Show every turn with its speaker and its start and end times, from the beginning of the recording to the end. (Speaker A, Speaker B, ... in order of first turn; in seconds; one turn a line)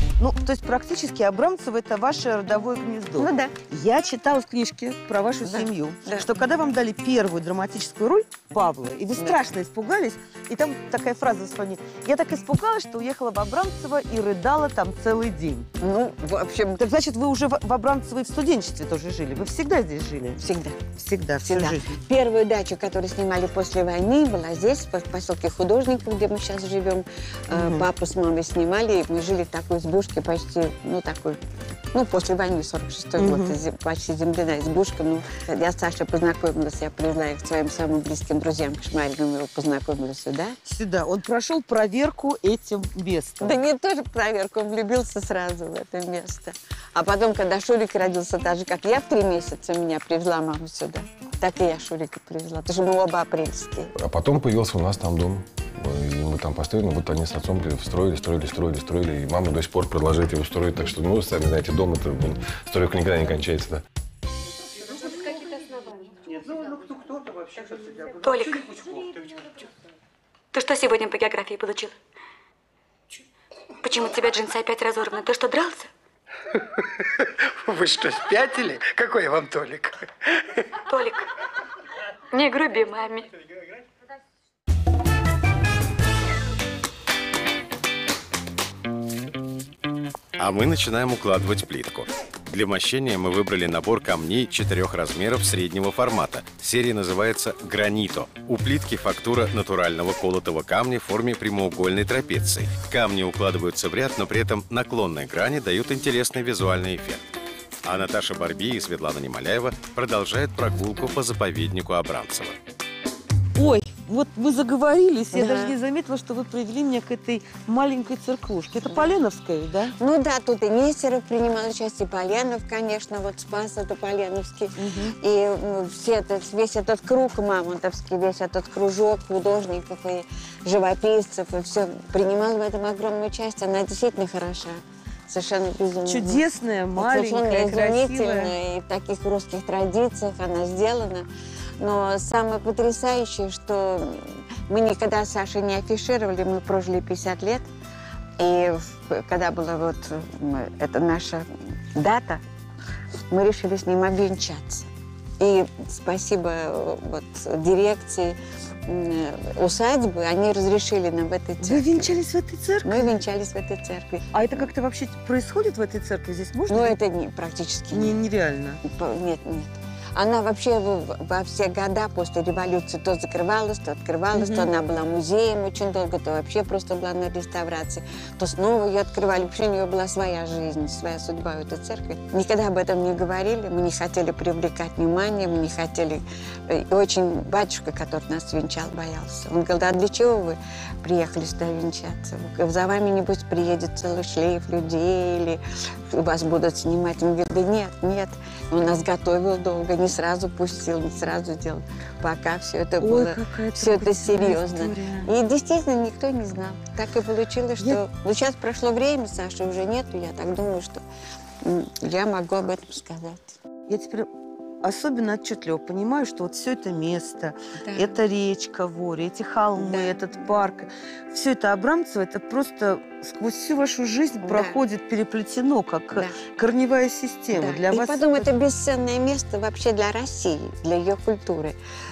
Speaker A: 0.2-15.7
Speaker B: 3.2-3.5
Speaker B: 5.4-6.2
Speaker B: 15.8-16.8
Speaker A: 16.8-20.4
Speaker B: 20.4-31.4
Speaker A: 20.9-21.9
Speaker A: 27.5-27.9
Speaker B: 31.9-40.6
Speaker A: 33.2-33.5
Speaker A: 40.6-43.6
Speaker B: 43.4-53.9
Speaker C: 54.0-63.8
Speaker D: 68.2-68.8
Speaker D: 70.5-71.9
Speaker D: 73.8-75.9
Speaker E: 77.7-79.9
Speaker D: 80.8-81.2
Speaker D: 82.3-83.3
Speaker F: 90.4-107.2
Speaker F: 107.8-112.5
Speaker A: 113.5-119.9
Speaker B: 115.3-115.7
Speaker B: 120.0-136.4
Speaker A: 124.8-125.1
Speaker A: 136.0-138.5
Speaker B: 136.9-141.2
Speaker B: 141.8-147.7
Speaker B: 148.4-152.4
Speaker B: 153.3-154.9
Speaker B: 155.4-162.1
Speaker A: 161.6-163.2
Speaker B: 162.8-164.3
Speaker A: 164.3-166.9
Speaker B: 166.7-168.1
Speaker A: 167.9-168.8
Speaker B: 168.8-211.0
Speaker A: 174.3-174.7
Speaker A: 203.0-205.3
Speaker B: 211.6-213.6
Speaker A: 213.9-214.3
Speaker A: 214.8-228.5
Speaker B: 217.8-218.1
Speaker B: 219.8-220.1
Speaker B: 224.4-224.8
Speaker B: 227.5-231.8